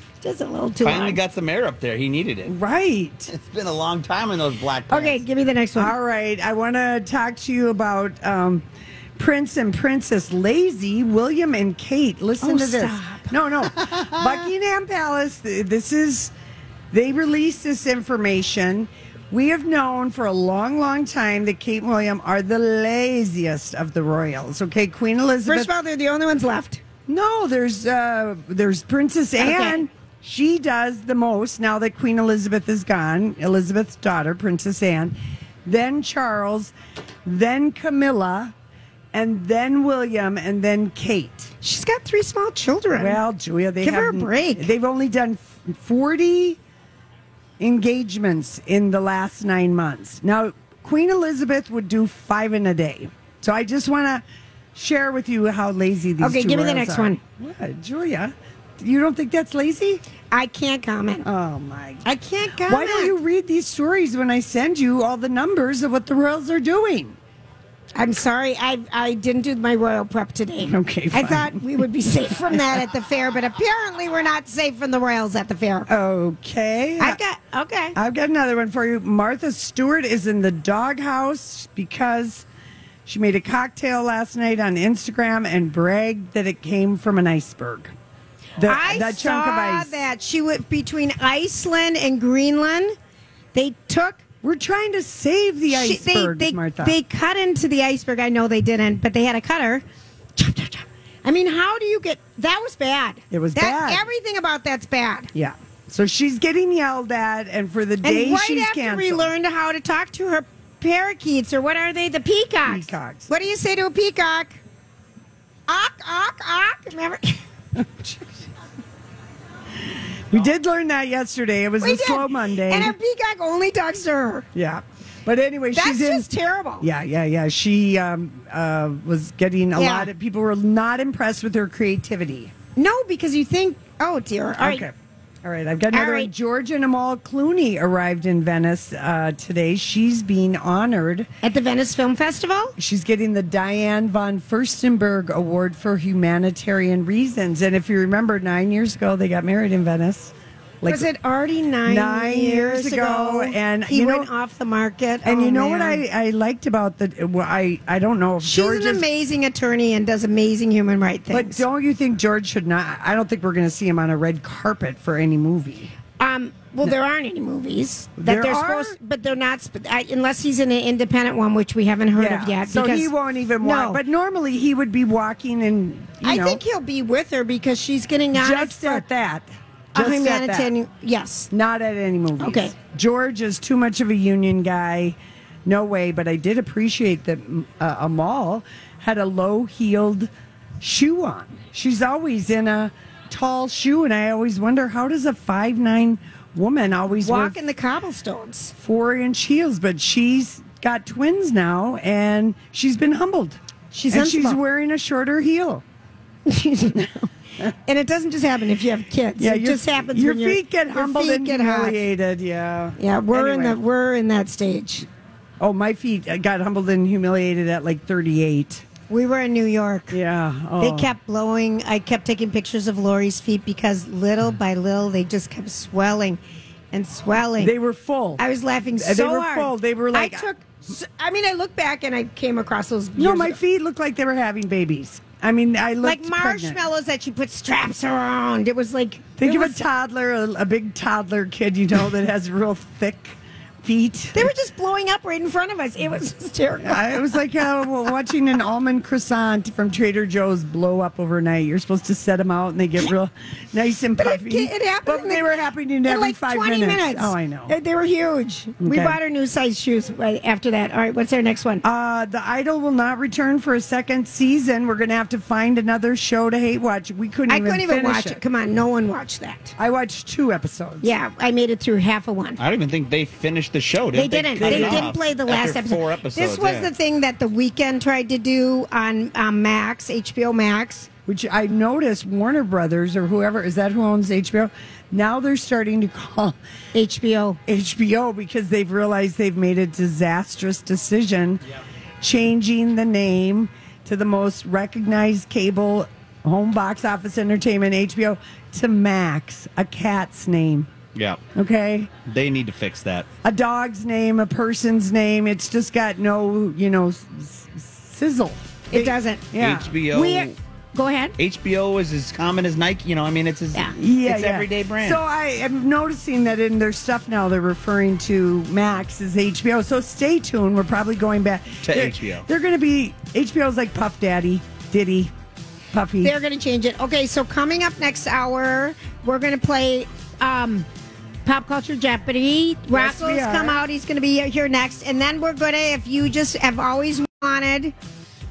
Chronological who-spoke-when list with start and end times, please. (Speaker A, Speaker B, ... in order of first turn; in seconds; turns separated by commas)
Speaker A: 0.2-1.2, Speaker B: 0.8-2.5, Speaker C: 2.5-3.3, Speaker B: 3.3-5.2, Speaker A: 4.9-5.9, Speaker C: 5.8-8.7, Speaker C: 9.2-16.3, Speaker A: 12.4-13.3, Speaker C: 16.9-25.7, Speaker A: 25.5-26.8, Speaker C: 27.1-36.7, Speaker A: 29.4-29.9, Speaker C: 37.2-38.5, Speaker C: 39.1-41.5, Speaker A: 41.6-43.2, Speaker C: 42.9-46.6, Speaker A: 43.8-44.7, Speaker C: 47.6-54.2, Speaker C: 54.8-60.0, Speaker A: 56.2-57.2, Speaker A: 60.3-61.3, Speaker C: 61.2-62.0, Speaker A: 62.0-63.1, Speaker C: 62.6-67.2, Speaker A: 68.0-75.9, Speaker C: 70.6-71.8, Speaker C: 72.5-72.8, Speaker C: 75.9-77.2, Speaker A: 77.0-78.0, Speaker C: 78.0-82.5, Speaker C: 83.1-87.9, Speaker C: 88.6-90.0, Speaker A: 88.6-93.0, Speaker A: 93.5-94.2, Speaker C: 94.4-97.0, Speaker A: 95.7-99.8, Speaker A: 100.4-105.3, Speaker C: 103.3-104.0, Speaker C: 105.3-109.3, Speaker A: 108.0-114.6, Speaker C: 112.7-113.3, Speaker A: 115.7-117.4, Speaker C: 117.8-118.5, Speaker C: 120.3-123.0, Speaker A: 121.8-124.5, Speaker C: 124.5-126.3, Speaker A: 125.8-126.9, Speaker C: 126.8-132.5, Speaker A: 129.8-130.1, Speaker A: 132.8-134.9, Speaker C: 134.6-141.3, Speaker A: 135.9-136.3, Speaker A: 141.4-142.8, Speaker C: 142.8-151.1, Speaker A: 150.9-156.0, Speaker C: 151.9-154.3, Speaker C: 155.2-159.1, Speaker A: 158.4-161.6, Speaker C: 161.3-165.9, Speaker A: 166.2-174.0, Speaker C: 168.2-169.0, Speaker C: 172.1-176.6, Speaker A: 176.2-179.0, Speaker C: 178.3-180.7, Speaker A: 179.9-181.5, Speaker C: 181.5-197.6, Speaker A: 182.4-182.7, Speaker A: 197.2-198.7, Speaker C: 198.8-203.6, Speaker A: 203.9-204.6, Speaker C: 204.1-205.8, Speaker A: 206.5-212.0, Speaker C: 209.4-213.8, Speaker A: 213.0-215.1, Speaker C: 215.6-218.8, Speaker A: 219.1-220.2, Speaker C: 220.1-221.1, Speaker A: 220.8-226.4, Speaker A: 226.9-227.7, Speaker C: 227.6-228.4, Speaker A: 228.4-233.6, Speaker C: 229.0-230.5, Speaker C: 233.2-236.8, Speaker A: 236.0-239.8, Speaker C: 239.4-244.5, Speaker A: 244.3-247.3, Speaker C: 246.8-257.8, Speaker A: 254.2-261.8, Speaker C: 258.8-259.2, Speaker C: 261.8-268.4, Speaker A: 267.5-269.7, Speaker C: 269.8-271.1, Speaker A: 271.0-272.6, Speaker B: 272.6-276.9, Speaker A: 274.1-281.1, Speaker C: 274.6-275.2, Speaker C: 281.3-286.6, Speaker A: 286.9-287.6, Speaker C: 287.7-291.6, Speaker C: 292.2-300.9, Speaker B: 301.1-301.4, Speaker C: 301.5-302.1, Speaker B: 302.2-303.3, Speaker C: 303.4-309.9, Speaker A: 308.9-309.5, Speaker B: 309.6-310.5, Speaker A: 310.1-311.4, Speaker B: 311.4-315.2, Speaker C: 314.0-325.3, Speaker B: 321.9-322.4, Speaker C: 325.9-326.4, Speaker A: 326.2-330.9, Speaker A: 331.4-337.9, Speaker C: 332.9-333.8